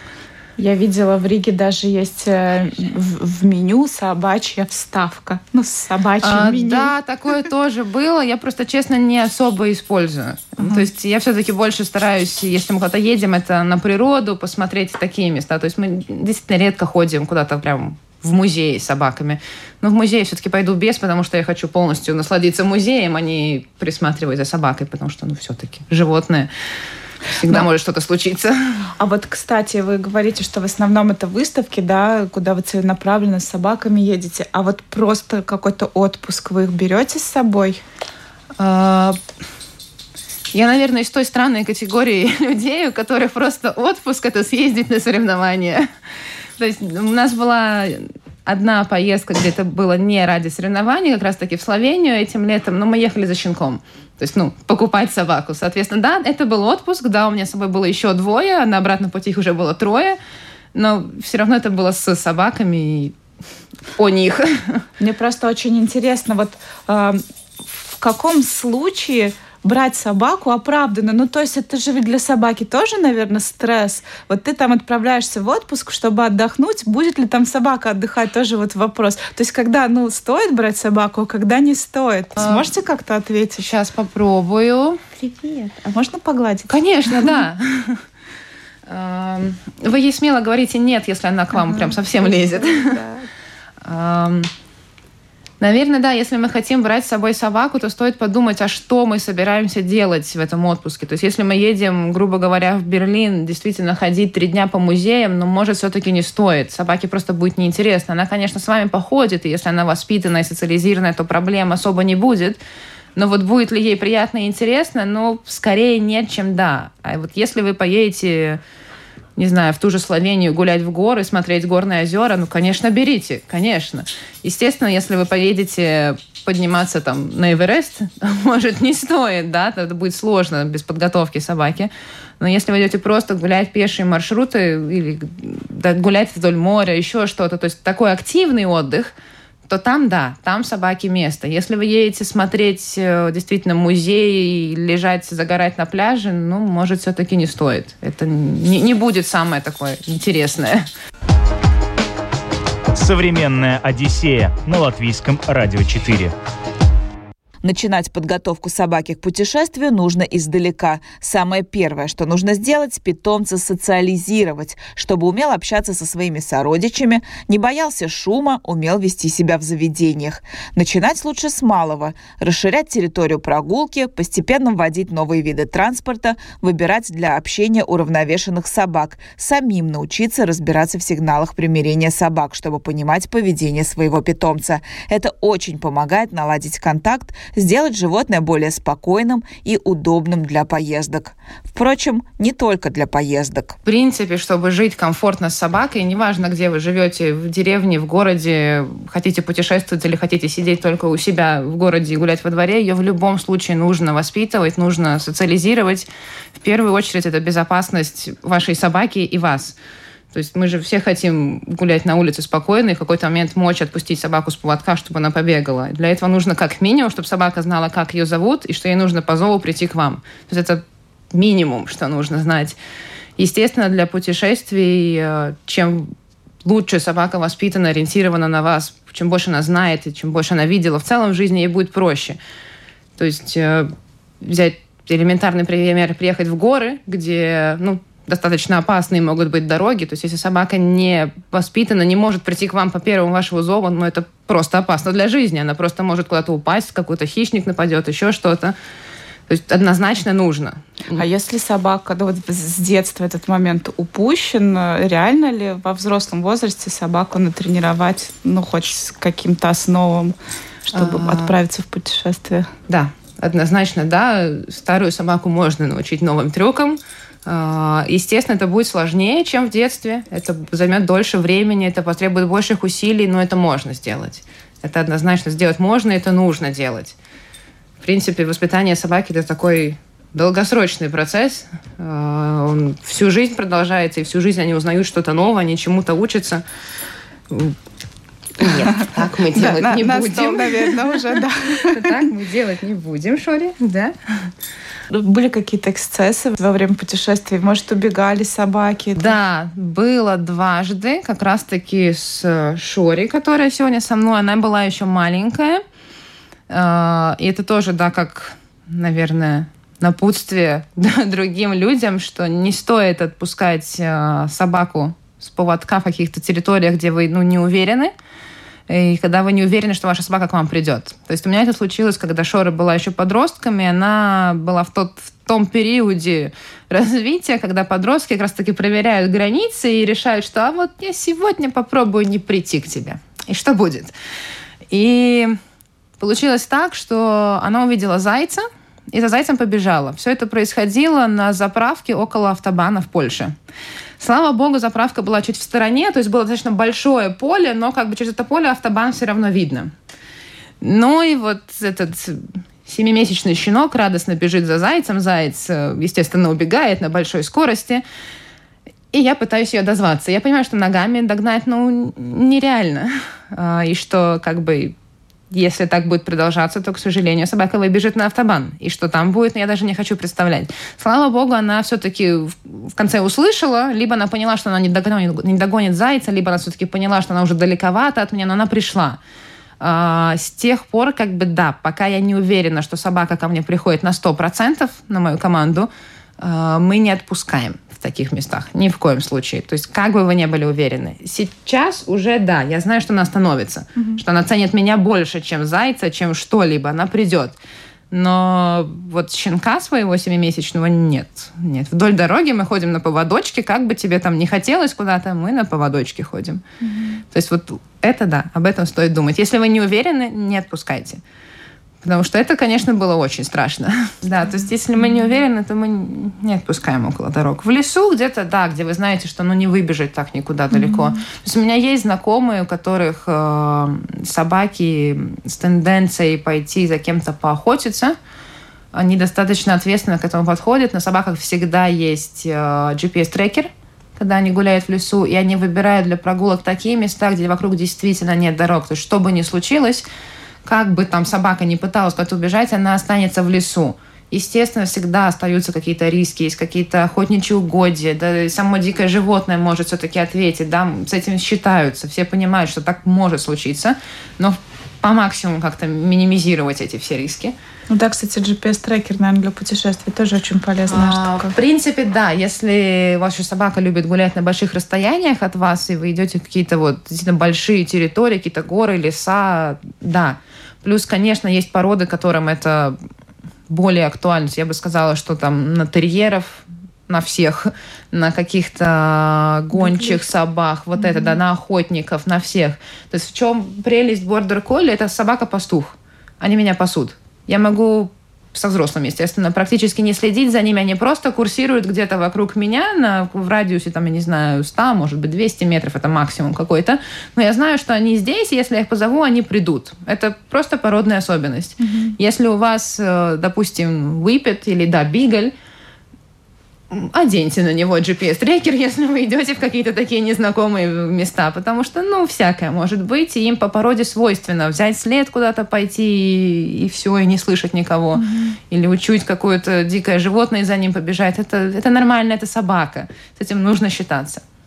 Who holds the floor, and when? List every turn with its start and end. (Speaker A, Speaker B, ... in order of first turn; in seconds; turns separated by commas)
Speaker A: 0.6-6.9, Speaker B: 6.2-26.5, Speaker A: 10.6-10.8, Speaker B: 27.3-28.9, Speaker A: 29.0-37.8, Speaker B: 38.6-39.2, Speaker B: 40.5-45.9, Speaker B: 46.6-60.2, Speaker B: 60.8-63.1, Speaker B: 64.0-64.8, Speaker A: 65.0-83.7, Speaker B: 82.4-82.7, Speaker B: 83.6-85.0, Speaker A: 85.2-87.3, Speaker B: 86.7-88.0, Speaker B: 88.9-93.0, Speaker A: 91.5-93.2, Speaker B: 93.8-94.5, Speaker B: 95.6-112.6, Speaker B: 113.2-118.6, Speaker B: 119.4-139.1, Speaker B: 139.7-150.9, Speaker C: 152.9-156.3, Speaker D: 157.6-193.8, Speaker B: 193.8-209.8, Speaker B: 210.3-222.8, Speaker B: 223.4-232.4, Speaker B: 233.2-248.8, Speaker B: 249.5-251.2, Speaker A: 251.2-260.3, Speaker A: 260.9-262.7, Speaker B: 260.9-261.5, Speaker B: 262.9-277.2, Speaker B: 278.0-286.6, Speaker B: 287.5-287.8, Speaker B: 288.6-294.5, Speaker A: 289.0-292.2, Speaker A: 295.1-299.4, Speaker B: 299.2-305.8, Speaker B: 306.7-318.1, Speaker B: 318.9-334.1, Speaker B: 334.9-335.6, Speaker B: 336.2-343.5, Speaker B: 344.2-349.9, Speaker B: 350.8-358.0, Speaker B: 359.1-364.9, Speaker B: 365.5-379.2, Speaker B: 379.8-397.6, Speaker B: 398.1-406.6, Speaker A: 406.8-407.2, Speaker B: 407.3-411.2, Speaker B: 412.0-428.1, Speaker A: 420.7-421.1, Speaker B: 428.9-440.1, Speaker B: 440.6-457.5, Speaker A: 457.9-461.5, Speaker B: 460.9-473.0, Speaker B: 473.7-505.5, Speaker A: 479.8-480.2, Speaker A: 481.0-481.4, Speaker A: 501.8-502.1, Speaker B: 506.9-524.4, Speaker A: 518.2-518.6